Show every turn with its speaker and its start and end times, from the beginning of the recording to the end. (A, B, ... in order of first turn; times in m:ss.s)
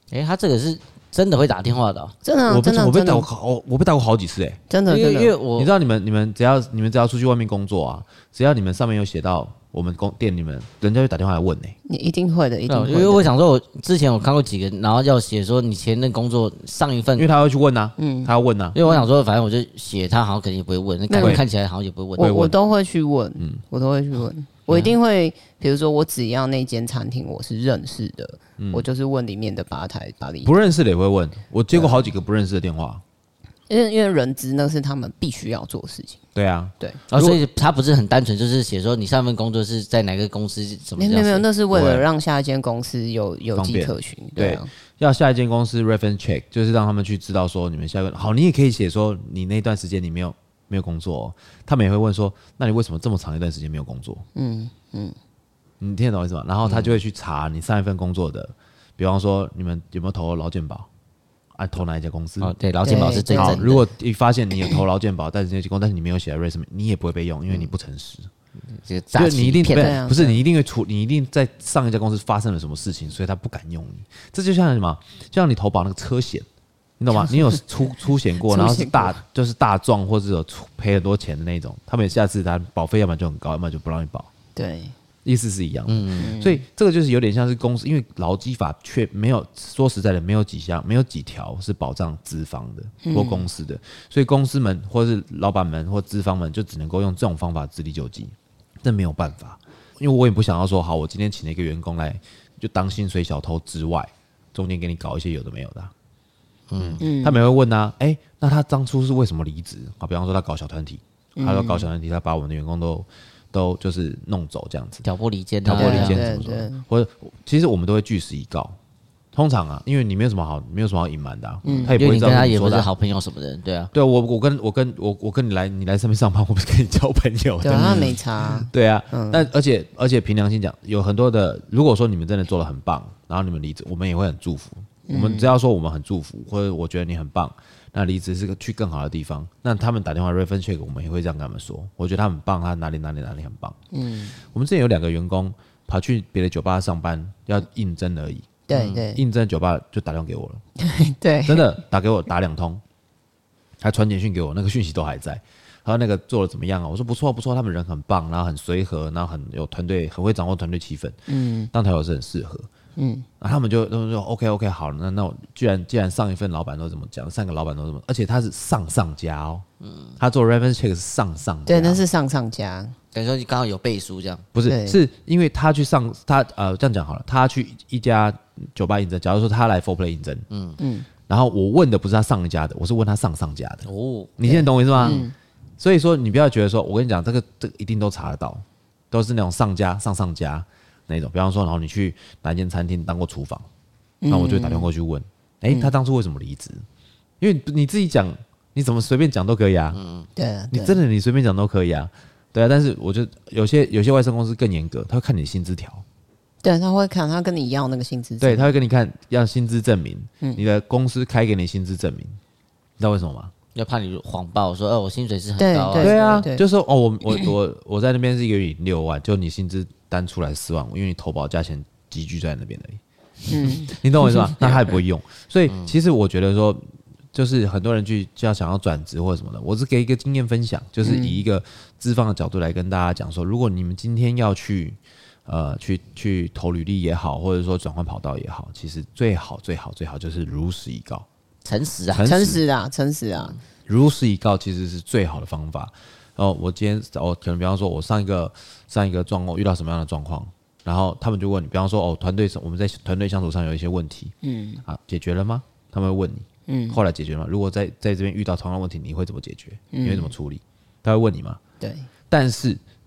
0:00.1-0:02.1 A
0:02.2-0:03.3 B
0:02.5-0:04.6 C
0:04.7-0:05.4 B
0:04.9-0:05.7 A
0:05.6-0:11.8 C
0:11.9-0:13.3 B
0:12.7-0:17.3 A
0:17.2-0:18.8 C
0:18.0-0:18.3 B
0:18.7-0:22.5 A
0:21.1-0:21.4 B
0:21.2-0:21.4 C
0:22.2-0:22.5 C
0:22.2-0:30.6 B
0:28.6-0:28.8 C
0:30.4-0:33.0 C
0:33.7-0:36.2 B
0:36.4-0:37.4 C
0:37.1-0:41.5 A
0:41.0-0:44.7 B
0:41.7-0:42.0 C
0:43.5-0:54.2 C
0:54.4-0:55.2 B
0:55.8-1:00.9 C
0:56.6-0:57.0 A
1:01.6-1:08.3 C
1:02.4-1:03.8 A
1:02.8-1:03.6 B
1:08.7-1:10.0 A
1:09.2-1:16.5 C
1:09.8-1:10.4 B
1:17.0-1:24.3 C
1:17.2-1:17.6 B
1:18.4-1:19.2 B
1:24.6-1:25.0 B
1:25.2-1:45.9 C
1:25.9-1:26.4 A
1:26.2-1:26.6 B
1:33.0-1:33.5 B
1:46.7-1:47.0 A
1:46.8-1:55.0 C
1:47.0-1:47.4 B
1:51.4-1:51.9 B
1:55.0-1:56.2 A
1:55.6-1:58.8 C
1:55.7-1:56.8 B
1:59.3-2:02.9 C
2:01.6-2:02.0 B
2:01.9-2:03.9 A
2:03.9-2:23.8 C
2:07.6-2:09.5 B
2:15.1-2:15.5 B
2:23.9-2:24.4 B
2:24.5-2:30.6 C
2:28.7-2:29.2 B
2:30.8-2:31.8 B
2:31.4-2:32.8 C
2:33.8-2:41.2 C
2:41.3-2:41.7 B
2:41.7-2:42.7 C
2:43.0-2:43.3 B
2:43.4-2:49.6 C
2:49.8-2:50.2 A
2:50.2-2:52.0 C
2:51.7-2:53.0 B
2:53.1-2:54.5 A
2:54.5-3:00.5 C
2:54.7-2:55.0 B
3:00.5-3:00.8 A
3:00.8-3:01.1 B
3:01.3-3:03.9 C
3:03.9-3:04.3 A
3:04.4-3:05.2 C
3:04.4-3:05.4 B
3:05.8-3:13.7 C
3:14.2-3:14.9 B
3:14.3-3:16.8 C
3:17.4-3:20.0 C
3:19.9-3:20.3 A
3:20.4-3:21.0 B
3:20.7-3:26.0 C
3:26.6-3:28.7 B
3:28.4-3:32.4 C
3:33.0-3:33.5 C
3:33.8-3:36.4 A
3:35.6-3:36.6 B
3:36.0-3:43.0 C
3:43.5-3:44.0 B
3:43.9-3:46.8 C
3:47.3-4:01.3 C
3:51.0-3:51.4 B
4:01.6-4:02.3 A
4:02.1-4:02.6 C
4:02.2-4:03.6 B
4:03.9-4:14.3 C
4:14.4-4:14.8 B
4:14.9-4:21.6 C
4:16.7-4:17.0 B
4:19.9-4:20.3 B
4:21.8-4:22.1 B
4:22.3-4:22.8 C